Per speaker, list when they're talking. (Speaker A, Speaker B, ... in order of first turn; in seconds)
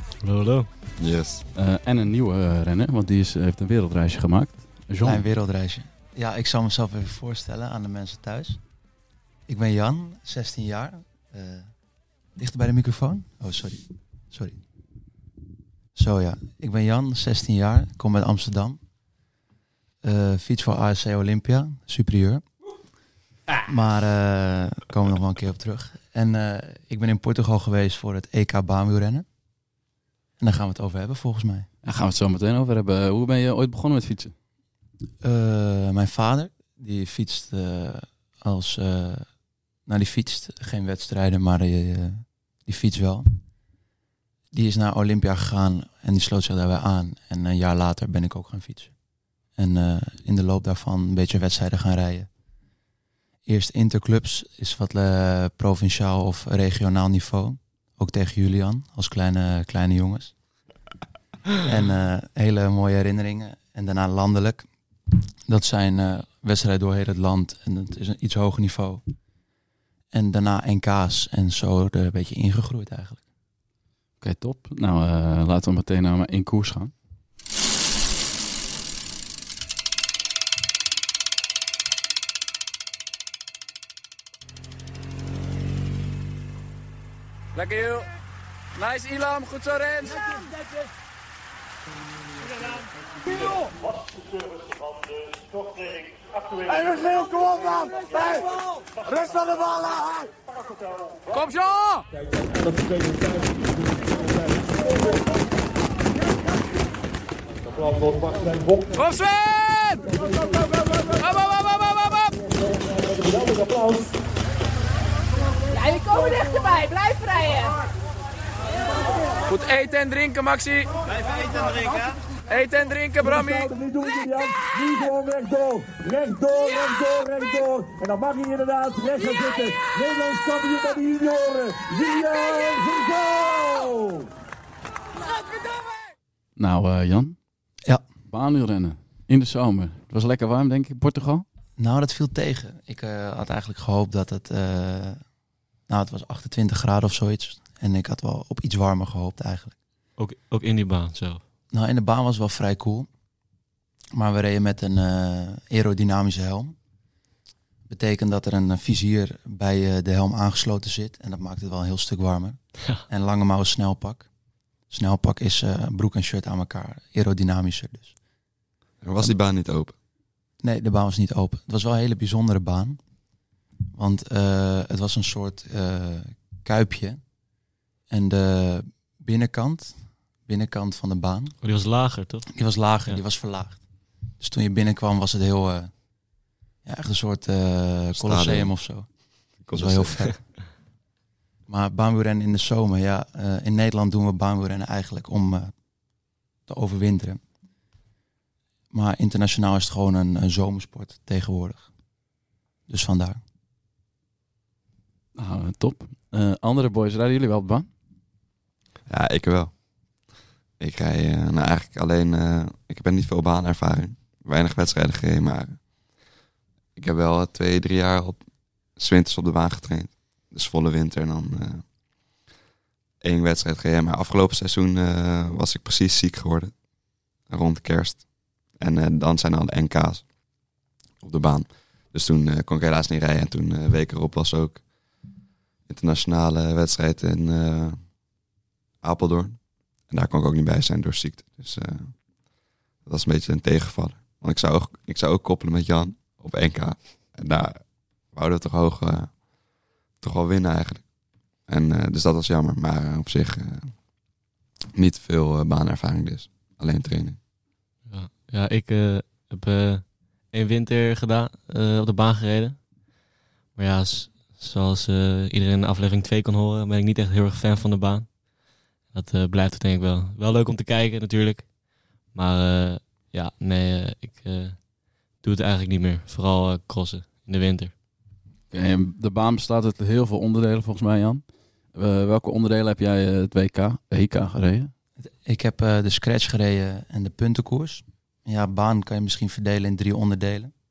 Speaker A: 0.2-0.7, 150.2-151.4, 181.6-182.5, 258.1-262.8, 263.8-268.4, 269.1-271.8, 272.3-274.9, 275.4-277.9
Speaker B: 1.0-1.4, 169.0-169.9, 188.1-188.7, 189.6-190.3, 209.1-209.7, 210.8-215.8, 216.9-218.4, 218.9-221.8, 223.2-226.8, 227.4-230.3, 231.2-234.8, 235.9-238.1, 239.0-242.2, 243.0-249.4, 250.2-251.1, 251.7-254.0, 254.9-257.4
Speaker C: 1.5-5.2, 31.8-34.3, 74.2-76.9, 87.5-88.0, 88.8-90.2, 119.5-120.8, 122.5-123.7, 136.6-137.3, 138.3-141.4, 205.3-207.9, 278.7-281.4, 281.9-284.9
Speaker D: 5.0-8.6, 9.5-11.7, 12.3-14.6, 15.9-18.8, 20.0-22.4, 23.6-29.2, 30.4-31.7, 35.2-39.3, 39.9-43.3, 44.5-48.9, 49.5-52.3, 53.5-60.3, 61.6-69.0, 70.1-73.2, 141.8-145.2, 145.9-149.8, 151.7-153.1, 154.1-156.7, 157.9-164.3, 164.9-168.1, 170.6-173.0, 173.9-177.2, 178.1-181.5, 182.5-183.8, 184.4-185.9, 186.8-189.2, 189.7-190.6, 191.7-195.7, 196.7-197.4, 198.9-201.9, 202.9-203.4, 285.2-290.7
Speaker E: 115.7-117.8
Speaker F: 125.1-132.1